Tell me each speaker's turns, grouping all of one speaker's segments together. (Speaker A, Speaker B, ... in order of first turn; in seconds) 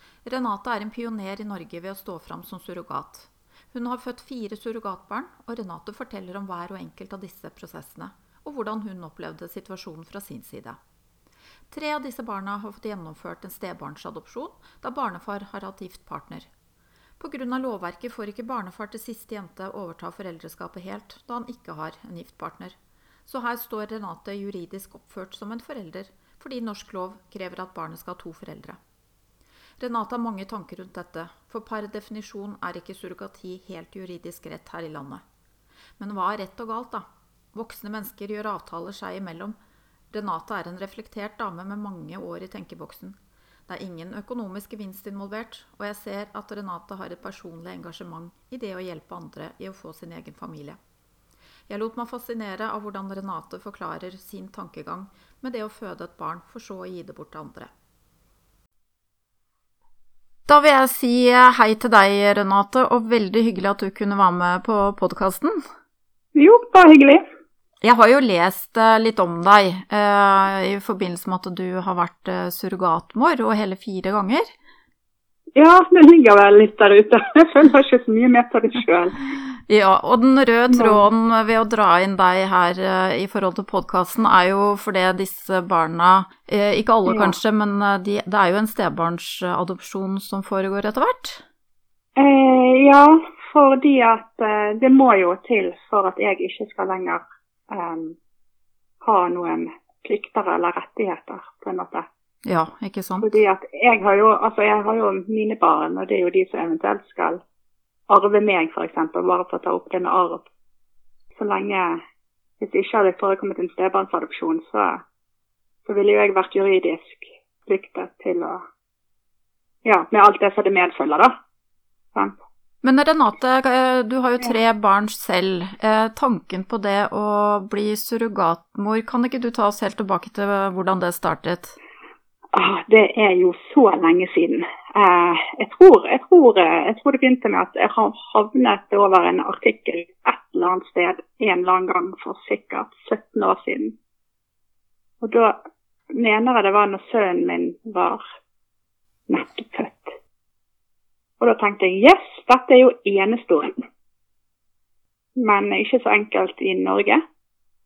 Speaker A: 0.2-10.8, 11.7-16.5, 17.2-28.8, 29.8-35.2, 36.0-39.5, 40.1-43.2, 43.7-50.8, 51.7-57.7, 60.5-65.6, 67.8-74.5, 79.7-91.4, 102.4-103.4, 122.8-131.8
Speaker B: 66.3-67.2, 75.5-79.3, 80.7-81.0, 87.1-87.4, 92.2-98.2, 99.0-102.0, 103.2-107.4, 108.1-110.5, 111.3-112.0, 112.6-115.0, 115.8-118.6, 119.8-121.3, 132.5-143.9, 145.2-145.6, 146.1-148.2, 149.3-150.2, 151.4-153.8, 155.4-157.2